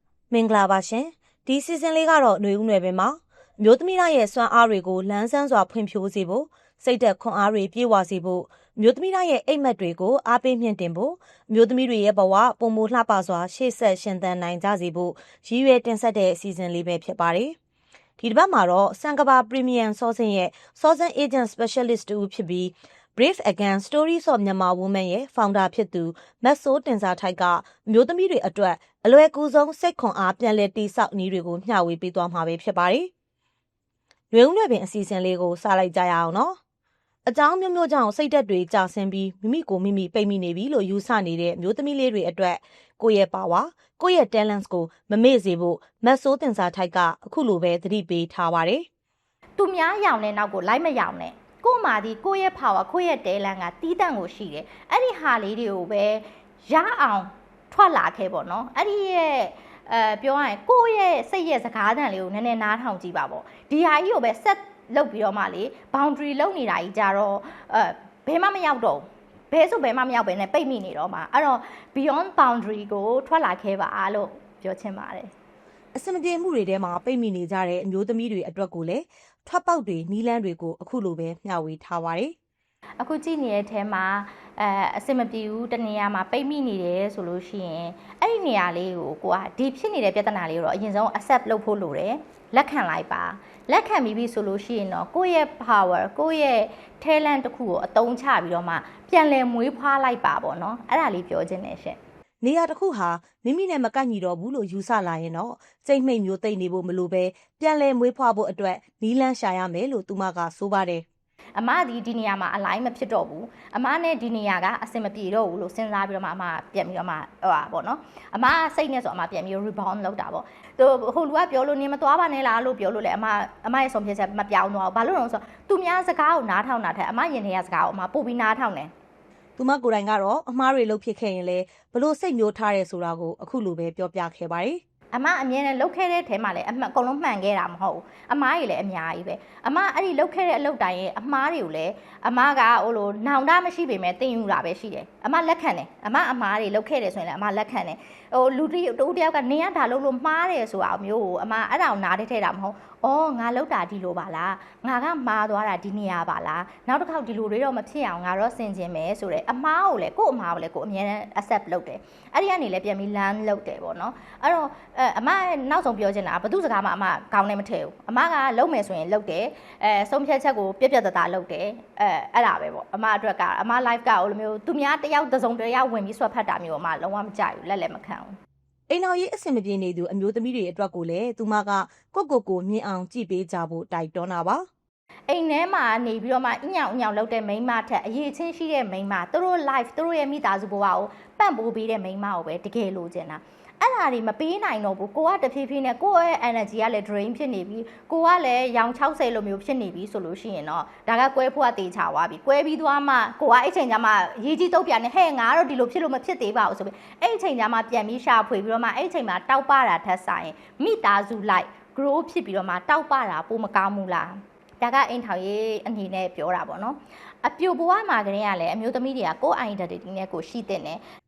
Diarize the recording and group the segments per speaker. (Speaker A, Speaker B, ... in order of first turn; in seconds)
Speaker A: 0.3-17.6, 18.2-33.1, 34.3-36.6, 37.3-48.9, 75.9-82.3, 102.4-111.0, 129.6-134.8, 178.9-184.6
Speaker B: 49.6-75.3, 83.0-102.0, 111.6-128.9, 135.1-178.3, 185.3-221.0